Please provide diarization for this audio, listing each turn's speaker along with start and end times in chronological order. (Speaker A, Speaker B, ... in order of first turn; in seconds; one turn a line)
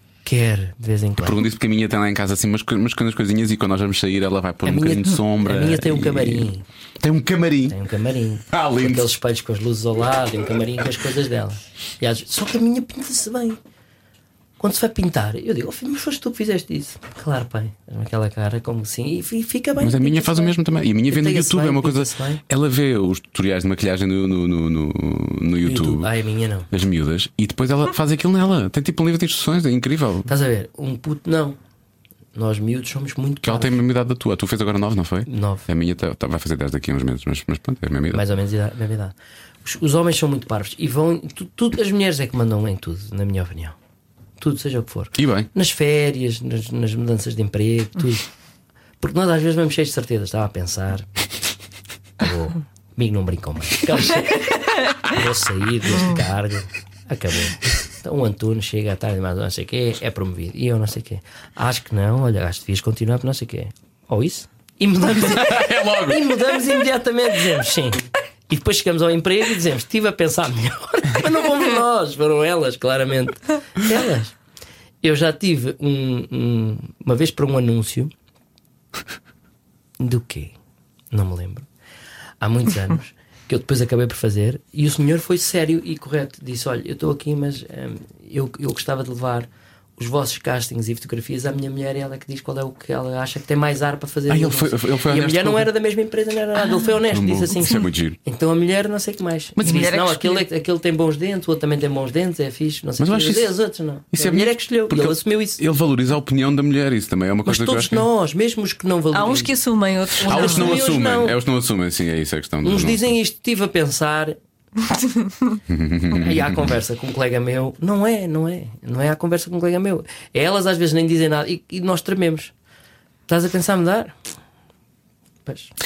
Speaker A: 0.2-1.4
Speaker B: 1.2-7.8
Speaker A: 4.7-6.7
Speaker A: 7.7-13.6
Speaker B: 8.5-9.1
Speaker A: 14.6-20.6
Speaker B: 19.8-26.1
Speaker A: 21.1-22.4
Speaker A: 25.6-26.7
Speaker B: 26.7-30.3
Speaker A: 30.3-31.6
Speaker A: 32.4-33.8
Speaker B: 33.4-38.2
Speaker A: 35.3-35.7
Speaker A: 38.1-43.8
Speaker A: 44.4-48.3
Speaker B: 45.2-45.5
Speaker A: 49.0-51.1
Speaker A: 52.2-74.3
Speaker B: 65.2-66.5
Speaker A: 75.0-78.1
Speaker A: 80.0-80.5
Speaker A: 81.1-81.7
Speaker A: 82.4-105.6
Speaker B: 94.3-95.7
Speaker B: 97.1-98.2
Speaker C: 99.6-100.5
Speaker B: 103.0-103.5
Speaker B: 104.1-108.1
Speaker A: 107.5-109.5
Speaker C: 109.1-110.8
Speaker A: 110.2-111.4
Speaker B: 110.2-113.1
Speaker A: 112.6-114.4
Speaker B: 115.7-116.8
Speaker A: 116.1-122.5
Speaker A: 123.3-124.2
Speaker A: 125.5-125.7